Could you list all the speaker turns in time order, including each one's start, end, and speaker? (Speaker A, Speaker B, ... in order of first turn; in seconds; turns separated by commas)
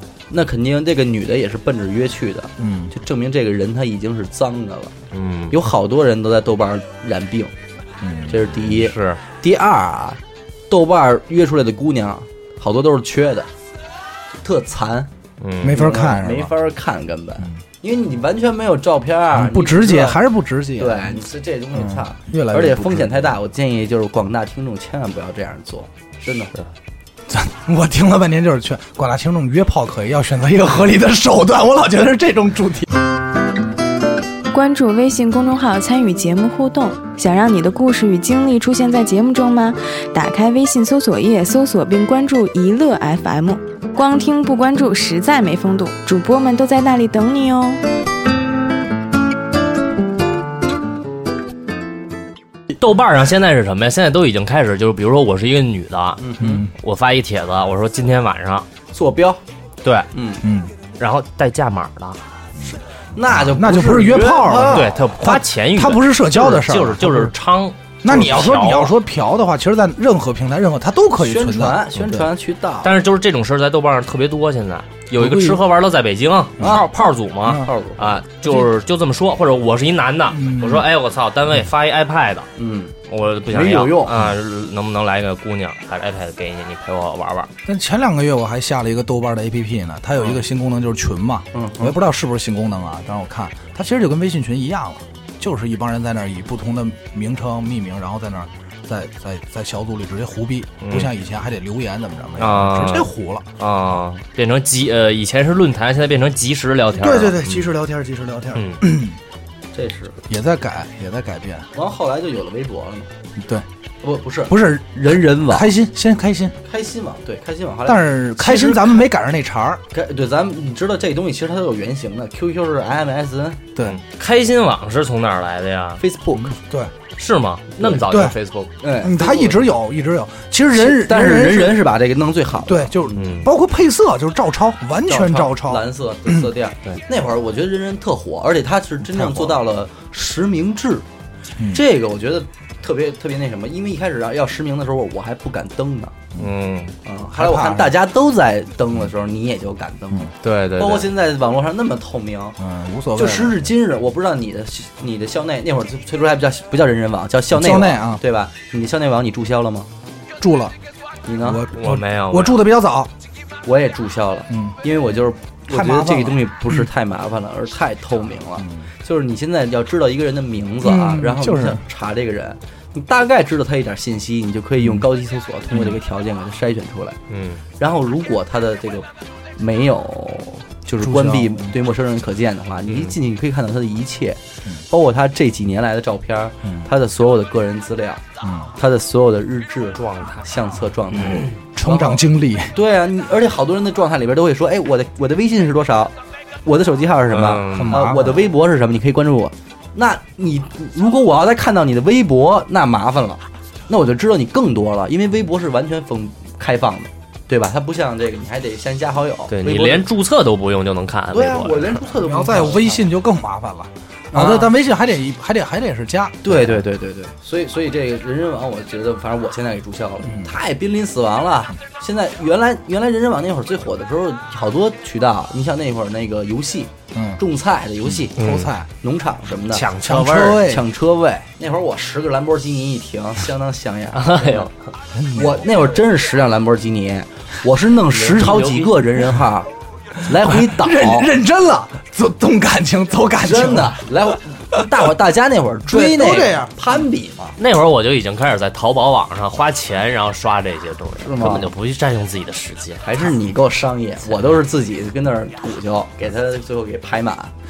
Speaker A: 0.3-5.0, Speaker B: 2.6-2.9, Speaker C: 5.1-5.5, Speaker A: 5.5-7.5, Speaker B: 8.0-8.5, Speaker A: 8.3-10.2, Speaker C: 8.6-9.2, Speaker A: 10.7-13.5, Speaker A: 14.4-15.1, Speaker C: 15.4-15.9, Speaker B: 15.6-16.5, Speaker A: 15.7-20.2, Speaker B: 19.3-21.2, Speaker A: 20.8-26.5, Speaker B: 21.8-23.3, Speaker B: 27.3-33.0, Speaker D: 34.5-47.8, Speaker C: 52.8-58.7, Speaker A: 56.2-56.7, Speaker B: 56.4-56.7, Speaker A: 58.9-59.4, Speaker C: 59.8-60.1, Speaker A: 60.1-60.4, Speaker B: 60.4-60.7, Speaker C: 61.0-62.2, Speaker B: 62.6-67.3, Speaker A: 63.1-64.9, Speaker C: 64.7-69.0, Speaker B: 68.0-72.2, Speaker A: 71.2-73.0, Speaker C: 72.8-82.5, Speaker B: 75.2-75.6, Speaker B: 76.6-76.8, Speaker A: 76.6-76.9, Speaker A: 77.6-78.2, Speaker B: 80.3-80.9, Speaker A: 82.6-83.0, Speaker C: 83.1-87.5, Speaker A: 83.5-84.2, Speaker B: 87.7-103.5, Speaker A: 91.5-92.0, Speaker C: 100.8-101.1, Speaker C: 102.4-107.7, Speaker B: 107.0-109.2, Speaker C: 108.5-108.8, Speaker A: 109.7-110.2, Speaker B: 110.3-111.7, Speaker A: 111.7-113.1, Speaker B: 113.4-113.7, Speaker A: 114.0-115.7, Speaker B: 114.5-116.5, Speaker A: 116.7-119.0, Speaker B: 117.9-119.8, Speaker A: 119.9-123.6, Speaker C: 123.8-126.0, Speaker A: 126.0-126.5, Speaker B: 126.4-126.9, Speaker C: 127.2-128.7, Speaker B: 128.0-128.4, Speaker A: 128.8-129.7, Speaker B: 129.0-131.8, Speaker A: 130.8-133.4, Speaker B: 132.7-136.5, Speaker C: 133.2-133.5, Speaker A: 135.1-141.1, Speaker B: 139.1-139.6, Speaker A: 141.7-146.2, Speaker C: 146.4-146.9, Speaker A: 147.1-152.6, Speaker B: 147.3-147.9, Speaker C: 150.4-151.1, Speaker B: 152.6-153.6, Speaker A: 153.2-159.9, Speaker B: 157.5-158.2, Speaker B: 160.4-160.8, Speaker A: 161.3-161.6, Speaker B: 161.4-163.1, Speaker C: 161.7-162.7, Speaker A: 163.7-177.2, Speaker B: 164.5-164.8, Speaker B: 165.7-166.8, Speaker B: 168.6-168.9, Speaker B: 170.8-171.8, Speaker C: 177.3-177.6, Speaker A: 177.8-188.2, Speaker B: 181.0-181.7, Speaker C: 182.9-183.2, Speaker B: 186.6-186.9, Speaker B: 188.4-188.7, Speaker A: 188.8-192.2, Speaker C: 190.0-191.5, Speaker B: 191.8-192.7, Speaker A: 192.7-196.1, Speaker A: 196.7-210.1, Speaker C: 197.3-198.0, Speaker B: 197.7-198.4, Speaker C: 209.5-212.0, Speaker A: 211.3-213.1, Speaker B: 212.2-216.7, Speaker A: 214.3-214.7, Speaker A: 216.4-228.4, Speaker B: 220.3-220.5, Speaker B: 227.1-227.4, Speaker B: 228.1-228.9, Speaker C: 228.4-228.7, Speaker A: 229.0-229.9, Speaker C: 229.7-230.7, Speaker B: 230.0-230.8, Speaker A: 230.6-234.7, Speaker C: 234.2-234.7, Speaker B: 235.2-235.6, Speaker A: 235.3-239.7, Speaker C: 238.1-239.2, Speaker A: 240.2-241.3, Speaker B: 240.4-244.0, Speaker A: 243.4-247.6, Speaker B: 245.9-246.7, Speaker C: 247.6-253.0, Speaker A: 251.2-251.7, Speaker A: 253.0-257.5